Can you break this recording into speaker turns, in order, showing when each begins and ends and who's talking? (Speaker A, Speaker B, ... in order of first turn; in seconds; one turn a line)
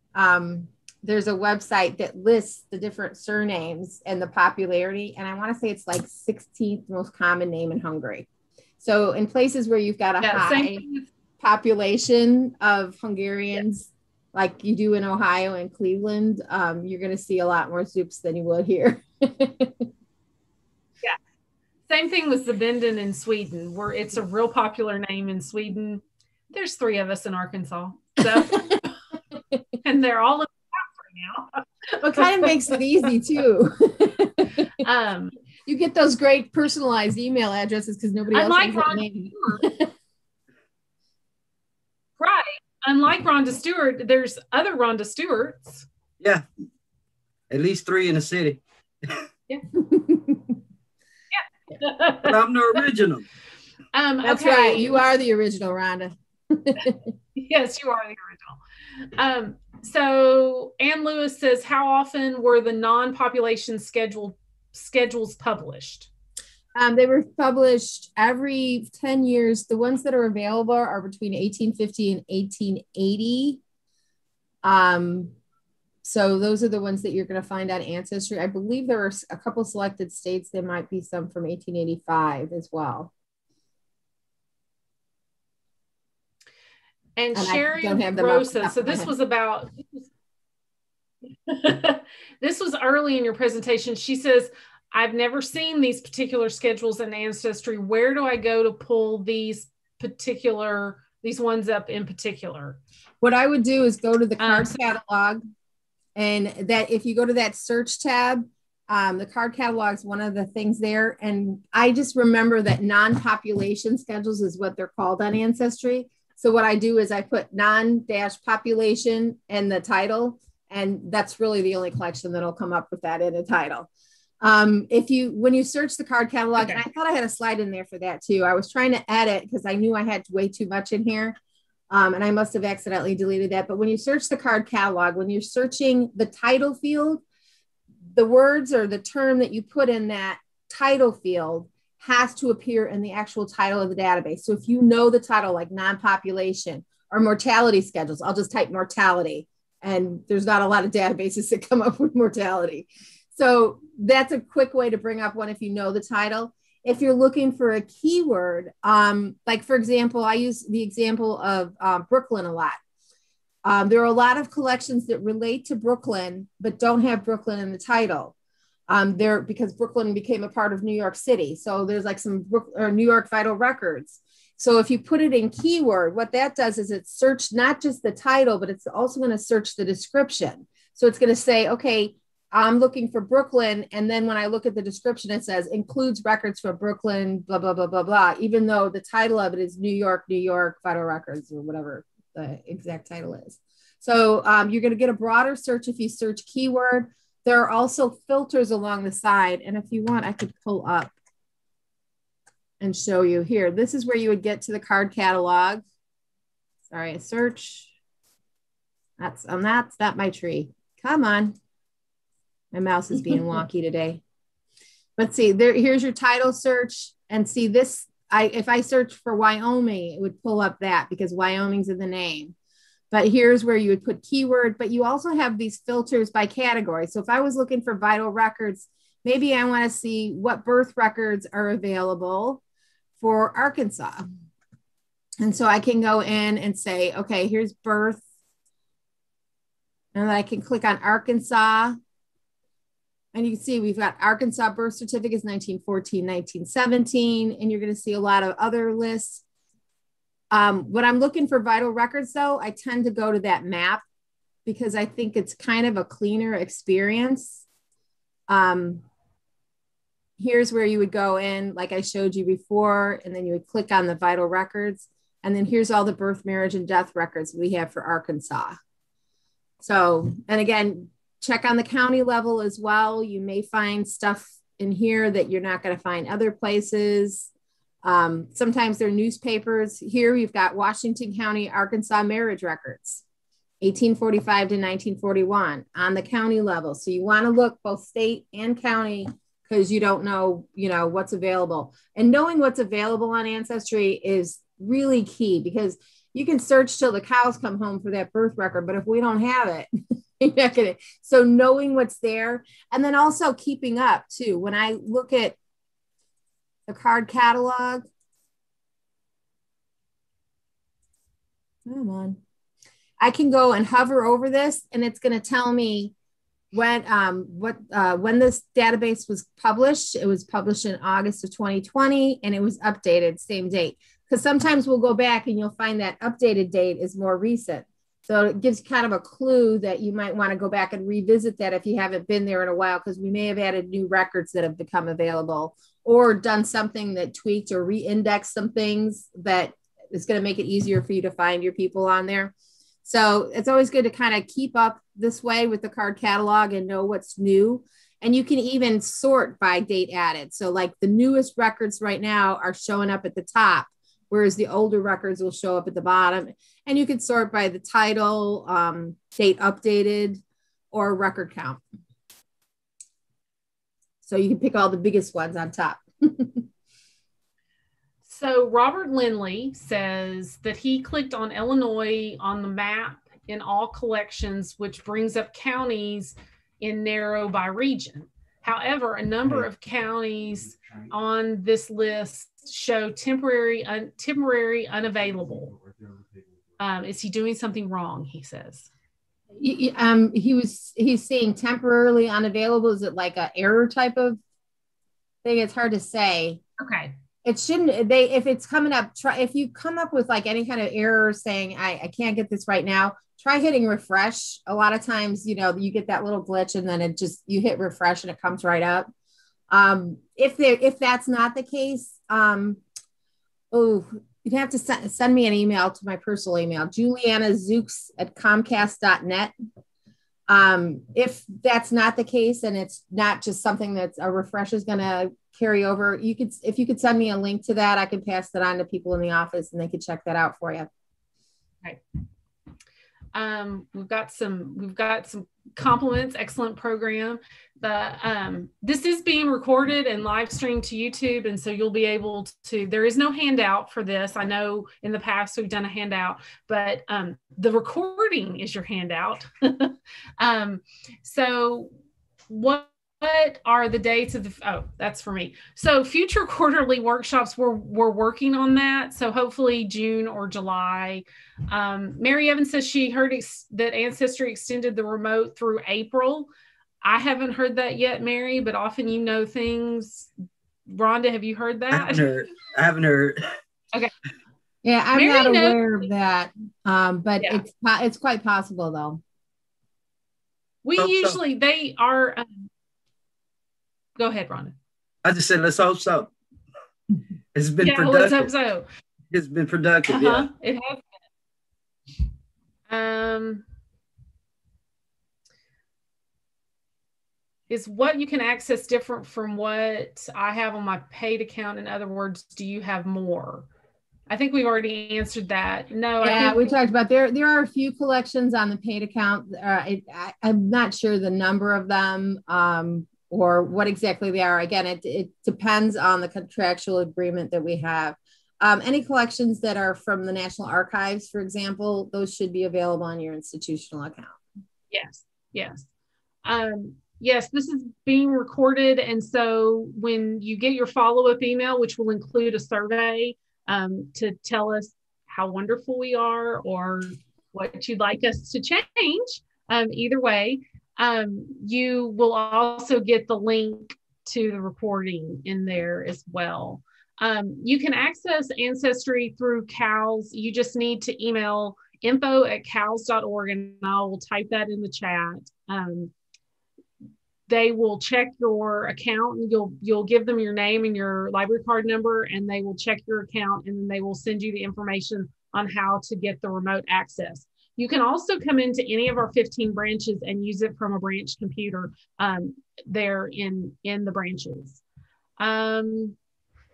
Speaker A: 0.2-8.3
Speaker A: 8.8-10.8
Speaker B: 10.2-11.1
Speaker A: 11.4-19.9
Speaker B: 21.9-28.9
Speaker B: 29.8-31.6
Speaker A: 32.0-34.8
Speaker B: 32.2-32.6
Speaker B: 34.8-35.3
Speaker A: 35.7-39.9
Speaker B: 38.3-39.6
Speaker B: 42.2-45.9
Speaker C: 47.5-49.1
Speaker A: 49.8-50.5
Speaker B: 51.4-52.4
Speaker C: 52.2-53.2
Speaker B: 53.9-55.0
Speaker A: 54.2-57.1
Speaker B: 57.4-58.6
Speaker B: 59.2-66.1
Speaker A: 66.8-73.6
Speaker A: 74.6-75.3
Speaker A: 76.0-83.1
Speaker B: 87.2-90.0
Speaker A: 87.3-89.1
Speaker B: 91.5-102.8
Speaker A: 103.2-105.4
Speaker B: 104.4-104.8
Speaker A: 106.2-123.9
Speaker A: 124.4-131.4
Speaker A: 131.9-137.2
Speaker A: 138.2-162.8
Speaker A: 163.7-168.3
Speaker A: 168.9-201.1
Speaker A: 202.8-205.8
Speaker A: 206.9-207.9
Speaker A: 209.2-211.6
Speaker A: 212.7-214.2
Speaker A: 215.2-222.5
Speaker A: 223.1-232.6
Speaker A: 233.2-234.3
Speaker A: 235.4-238.2
Speaker A: 240.2-242.0
Speaker A: 243.3-249.4
Speaker A: 250.5-254.0
Speaker A: 254.7-257.6
Speaker A: 258.5-259.0
Speaker A: 260.4-268.8
Speaker A: 269.8-277.5
Speaker A: 278.0-283.2
Speaker A: 283.8-299.9
Speaker A: 300.4-305.6
Speaker A: 306.9-308.1
Speaker A: 311.9-312.4
Speaker A: 313.2-316.1
Speaker A: 316.7-342.5
Speaker A: 343.0-361.8
Speaker A: 364.2-366.6
Speaker B: 368.2-385.8
Speaker B: 386.8-388.9
Speaker A: 389.6-394.4
Speaker A: 395.4-396.6
Speaker B: 396.8-397.1
Speaker A: 397.4-409.1
Speaker A: 409.7-412.8
Speaker A: 413.7-419.5
Speaker A: 420.5-430.9
Speaker B: 433.3-451.9
Speaker B: 452.5-466.5
Speaker B: 467.0-470.3
Speaker B: 470.9-472.3
Speaker C: 471.9-473.4
Speaker A: 474.8-479.2
Speaker B: 475.1-476.1
Speaker B: 480.8-482.7
Speaker C: 481.0-481.4
Speaker B: 484.2-484.8
Speaker C: 485.2-486.3
Speaker C: 487.6-488.5
Speaker B: 487.8-488.9
Speaker C: 489.3-490.5
Speaker B: 490.1-491.1
Speaker B: 492.9-493.6
Speaker B: 497.7-503.7
Speaker B: 504.3-506.7
Speaker A: 506.2-524.4
Speaker B: 524.9-525.9
Speaker B: 526.4-556.1
Speaker B: 557.5-574.8
Speaker B: 575.4-576.2